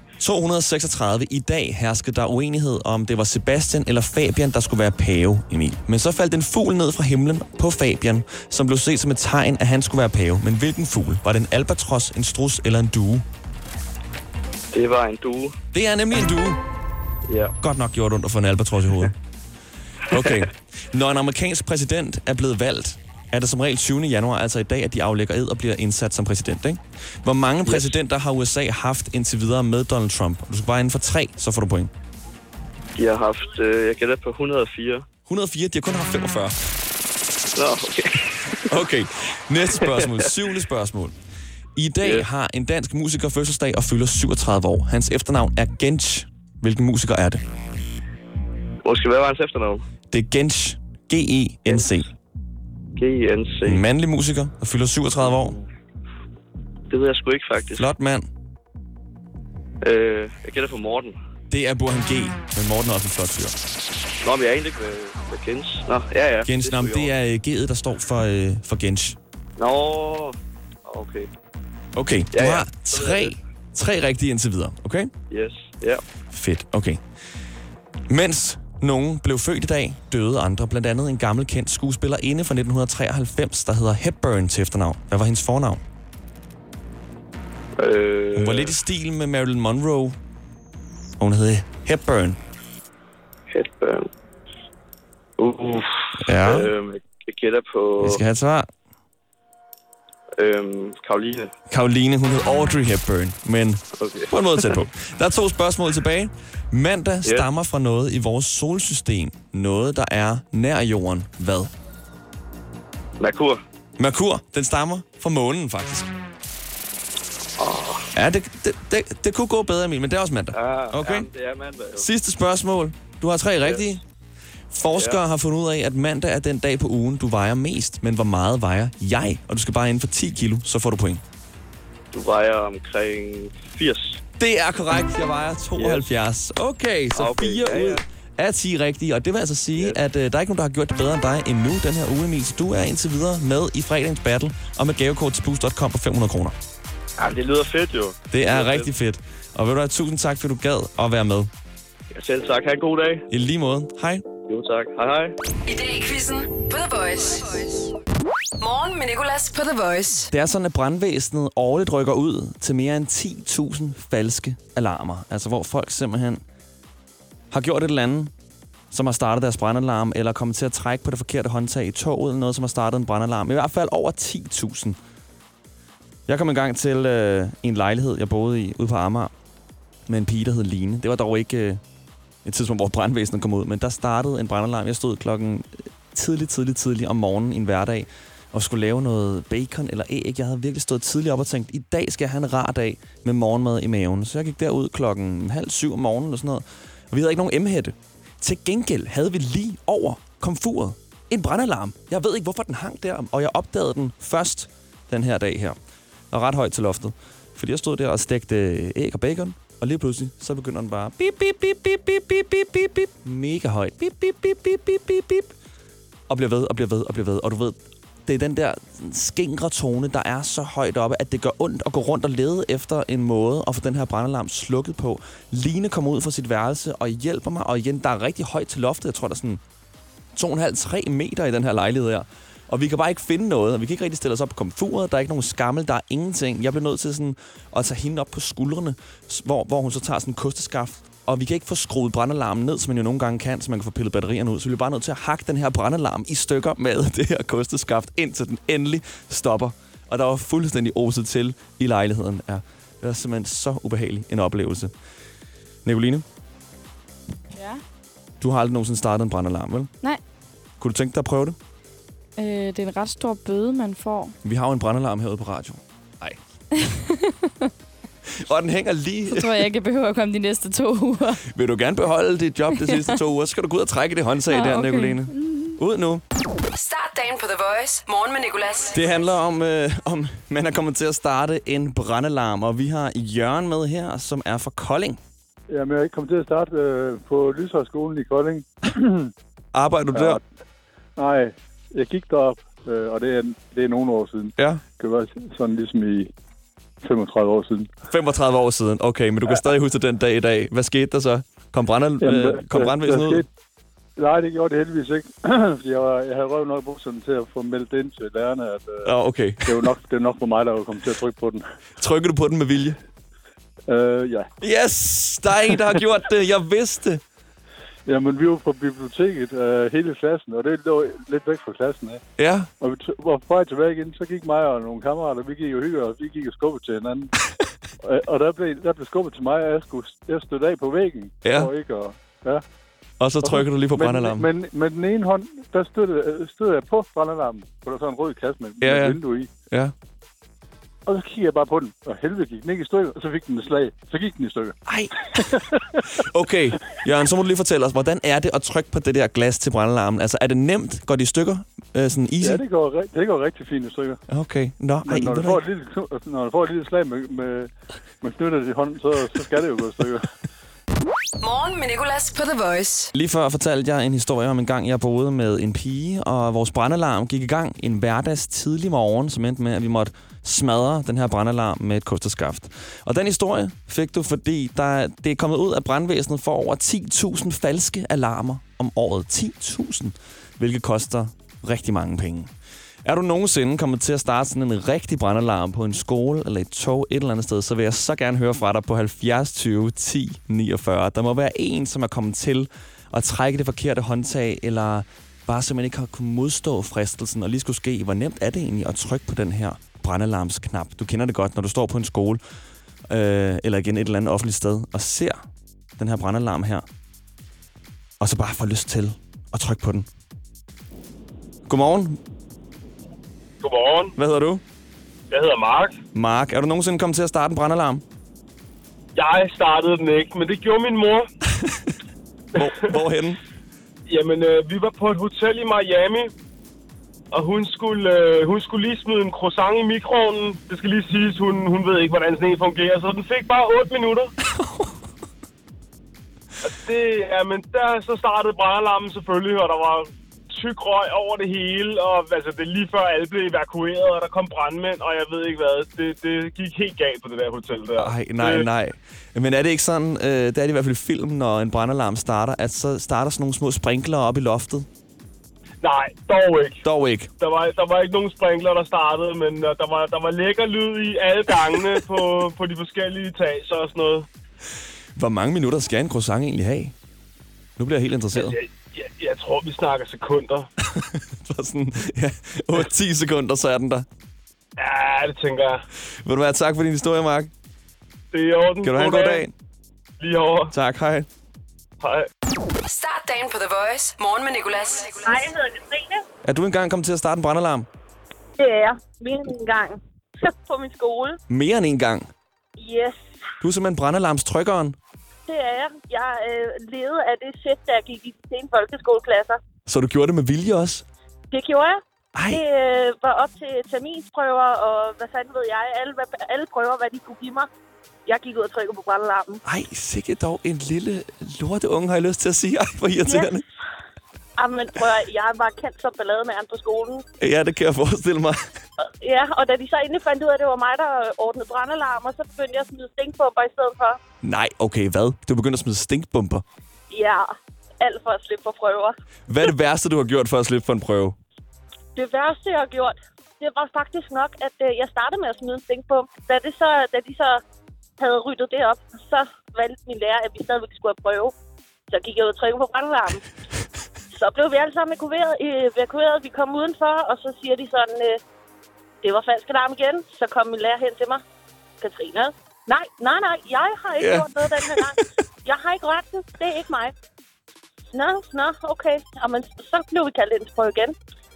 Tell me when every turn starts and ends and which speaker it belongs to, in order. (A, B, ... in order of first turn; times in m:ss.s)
0:00.2-0:13.2 A
0:14.7-0:15.5 B
0:15.7-0:16.6 A
0:17.3-0:17.5 B
0:17.6-0:19.1 A
0:20.1-0:31.9 A
0:20.1-0:20.4 B
0:27.6-0:27.9 B
0:33.0-0:35.0 B
0:35.3-0:36.6 A
0:37.6-0:38.7 B
0:38.7-0:41.1 A
0:39.8-0:40.2 B
0:41.8-0:47.4 A
0:48.8-0:49.8 B
0:50.1-0:52.1 A
0:53.0-0:53.8 B
0:53.6-0:55.6 A
0:56.9-0:57.9 B
0:57.8-0:58.3 A
0:59.8-1:01.1 B
1:01.5-1:03.6 A
1:04.2-1:07.1 B
1:06.4-1:09.2 A
1:09.6-1:11.3 B
1:11.9-1:15.1 A
1:12.3-1:13.4 B
1:15.3-1:16.0 B
1:16.3-1:17.0 A
1:18.1-1:25.8 A
1:27.8-1:28.7 B
1:28.3-1:30.2 A
1:31.2-1:32.4 A
1:33.5-1:34.1 B
1:35.4-1:38.2 B
1:36.2-1:36.7 A
1:38.0-1:38.7 A
1:40.4-1:41.5 B
1:41.7-1:51.7 A
1:44.0-1:44.8 B
1:53.2-1:53.6 B
1:54.0-1:56.1 A
1:57.6-1:58.1 B
1:58.1-2:01.3 A
2:00.5-2:02.0 B
2:01.9-2:04.0 A
2:03.6-2:03.9 B
2:04.7-2:11.2 A
2:12.1-2:14.2 B
2:14.4-2:26.6 A
2:15.8-2:16.1 B
2:17.1-2:18.0 B
2:27.2-2:28.9 B
2:28.3-2:31.5 A
2:32.1-2:33.2 B
2:33.3-2:34.2 A
2:34.5-2:35.3 B
2:35.6-2:37.9 C
2:38.6-2:40.3 C
2:40.3-2:46.4 A
2:47.5-2:48.3 A
2:48.9-2:55.0 A
2:56.3-2:59.3 A
3:00.1-3:01.8 A
3:02.4-3:25.8 A
3:26.3-3:35.5 A
3:36.3-3:49.6 A
3:50.3-4:14.9 A
4:15.8-4:16.2 A
4:17.5-4:17.8 D
4:18.4-4:19.9 A
4:20.8-4:21.6 A
4:22.4-4:24.3 D
4:24.4-4:26.4 A
4:26.8-4:27.7 D
4:28.3-4:29.7 A
4:29.3-4:31.4 D
4:31.4-4:36.2 A
4:32.8-4:33.2 D
4:34.5-4:35.8 D
4:36.7-4:39.1 C
4:38.9-4:45.2 A
4:45.7-4:49.3 E
4:49.7-4:50.4 A
4:50.1-4:50.4 E
4:51.2-4:56.3 E
4:54.6-4:54.8 A
4:57.0-4:57.9 E
4:58.1-5:03.4 A
5:02.2-5:03.5 E
5:04.2-5:09.1 E
5:09.0-5:09.8 A
5:09.6-5:11.6 E
5:12.0-5:13.0 A
5:13.9-5:14.5 E
5:14.6-5:17.2 A
5:18.1-5:22.2 E
5:22.4-5:22.7 A
5:22.8-5:27.3 E
5:28.0-5:32.6 E
5:31.4-5:31.7 A
5:33.2-5:34.5 A
5:33.4-5:39.5 E
5:38.8-5:39.2 A
5:41.0-5:44.8 E
5:44.8-5:52.6 A
5:45.4-5:46.0 E
5:52.4-5:54.2 E
5:54.3-5:55.6 A
5:55.0-6:00.3 E
6:01.4-6:03.1 C
6:03.1-6:22.5 A
6:23.0-6:42.4 A
6:43.1-6:45.4 A
6:46.0-6:46.8 A
6:48.2-6:50.1 A
6:51.7-6:52.2 A
6:53.6-6:54.1 F
6:54.2-6:54.6 A
6:55.3-6:56.0 F
6:56.1-6:58.0 A
6:59.1-7:01.3 F
7:01.5-7:01.9 A
7:02.5-7:03.4 A
7:04.1-7:06.3 F
7:07.3-7:14.3 F
7:14.6-7:14.9 A
7:16.6-7:28.7 F
7:28.0-7:34.9 A
7:35.8-7:36.8 F
7:36.8-7:37.3 A
7:37.4-7:44.3 F
7:45.2-7:46.9 A
7:47.8-7:48.6 A
7:48.4-7:50.7 F
7:50.8-7:54.0 A
7:54.8-7:55.8 F
7:56.2-7:57.5 A
7:58.3-7:59.5 F
7:58.8-7:59.5 A
8:00.2-8:00.7 F
8:00.7-8:01.3 A
8:02.0-8:02.3 F
8:02.8-8:05.5 C
8:05.2-8:06.2 G
8:06.4-8:07.9 A
8:08.6-8:11.4 G
8:11.5-8:12.3 A
8:12.8-8:13.2 G
8:13.6-8:15.0 A
8:15.5-8:19.6 G
8:19.8-8:21.0 A
8:21.5-8:27.7 G
8:22.3-8:22.6 A
8:28.3-8:29.6 G
8:29.6-8:33.6 A
8:33.2-8:33.6 G
8:34.6-8:37.2 G
8:37.4-8:38.6 A
8:39.0-8:44.2 G
8:44.4-8:46.6 A
8:47.1-8:49.2 G
8:49.5-8:51.4 A
8:52.2-8:57.6 G
8:58.2-9:01.5 G
9:02.1-9:03.4 G
9:04.3-9:08.4 G
9:09.2-9:11.4 G
9:12.0-9:17.1 G
9:14.2-9:15.2 A
9:18.1-9:21.1 G